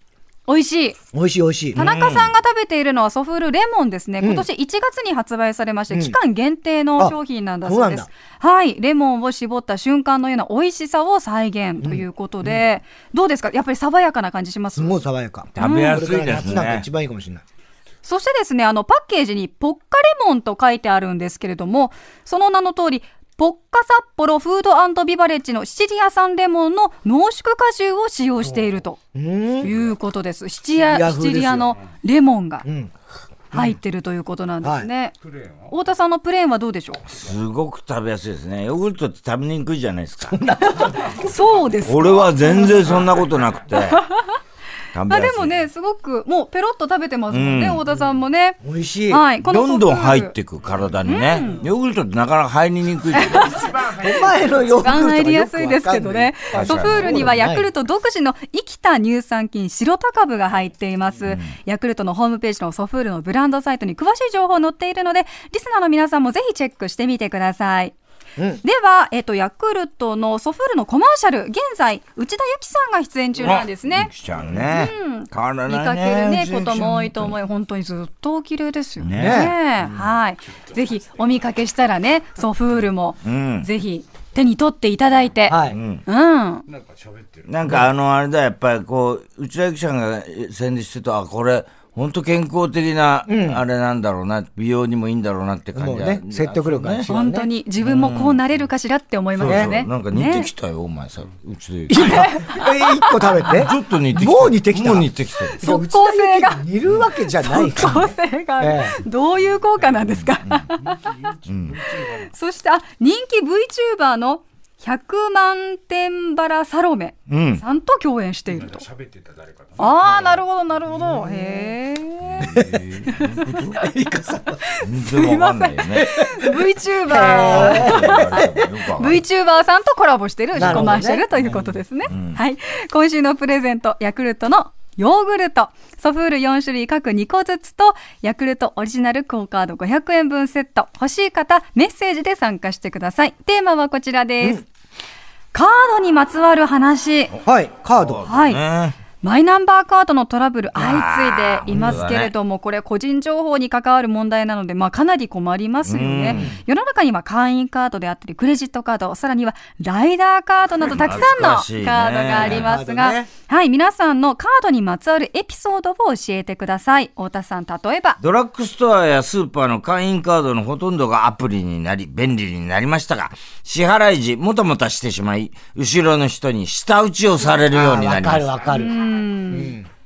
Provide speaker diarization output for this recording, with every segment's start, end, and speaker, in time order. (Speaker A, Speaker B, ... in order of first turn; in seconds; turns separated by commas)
Speaker A: 0.5-1.0, Speaker B: 1.1-1.8, Speaker C: 1.8-2.3, Speaker A: 1.8-14.9, Speaker B: 4.2-4.5, Speaker B: 5.9-6.2, Speaker B: 7.0-8.1, Speaker B: 11.8-12.6, Speaker B: 14.8-17.4, Speaker C: 15.6-16.9, Speaker A: 15.6-16.0, Speaker A: 18.0-29.0, Speaker B: 29.1-29.8, Speaker A: 29.6-32.7, Speaker B: 30.8-31.8, Speaker B: 32.6-32.9, Speaker A: 33.5-37.0, Speaker B: 34.6-34.9, Speaker C: 37.1-40.5, Speaker B: 40.3-41.2, Speaker A: 41.0-43.0, Speaker C: 41.8-44.0, Speaker C: 44.9-45.5, Speaker A: 45.1-50.3, Speaker C: 47.3-47.8, Speaker B: 48.6-49.2, Speaker C: 49.4-53.6, Speaker A: 51.1-51.6, Speaker A: 53.2-54.0, Speaker B: 53.9-57.7, Speaker A: 54.8-68.0, Speaker C: 56.5-57.3, Speaker C: 61.2-61.5, Speaker A: 68.6-86.7, Speaker C: 73.4-77.3, Speaker C: 79.0-79.5, Speaker B: 79.1-79.5, Speaker C: 83.2-83.7, Speaker B: 85.5-85.8, Speaker C: 85.7-86.0, Speaker C: 87.5-97.1, Speaker B: 93.3-93.6, Speaker B: 95.8-97.5, Speaker A: 97.1-100.5, Speaker C: 97.8-98.4, Speaker C: 99.4-102.4, Speaker B: 99.4-99.7, Speaker B: 101.9-109.0, Speaker A: 102.0-102.7, Speaker C: 103.5-105.6, Speaker A: 105.6-106.7, Speaker A: 107.4-111.2, Speaker C: 111.4-111.8, Speaker A: 111.9-118.9, Speaker C: 117.3-117.6, Speaker A: 119.8-122.5, Speaker C: 122.4-123.8, Speaker A: 123.1-123.6, Speaker B: 123.8-124.6, Speaker A: 124.7-144.6, Speaker C: 124.8-126.1, Speaker B: 126.0-126.5, Speaker B: 127.1-128.7, Speaker C: 127.2-129.2, Speaker B: 130.6-131.8, Speaker C: 130.6-130.9, Speaker C: 132.1-132.4, Speaker A: 145.5-147.3, Speaker B: 147.4-148.2, Speaker C: 147.9-149.0, Speaker A: 148.3-148.6, Speaker A: 149.2-168.2, Speaker C: 150.8-152.3, Speaker B: 151.7-152.0, Speaker C: 155.8-156.6, Speaker C: 160.8-162.7, Speaker B: 162.4-163.3, Speaker C: 168.2-178.5, Speaker B: 177.7-179.9, Speaker A: 178.7-179.8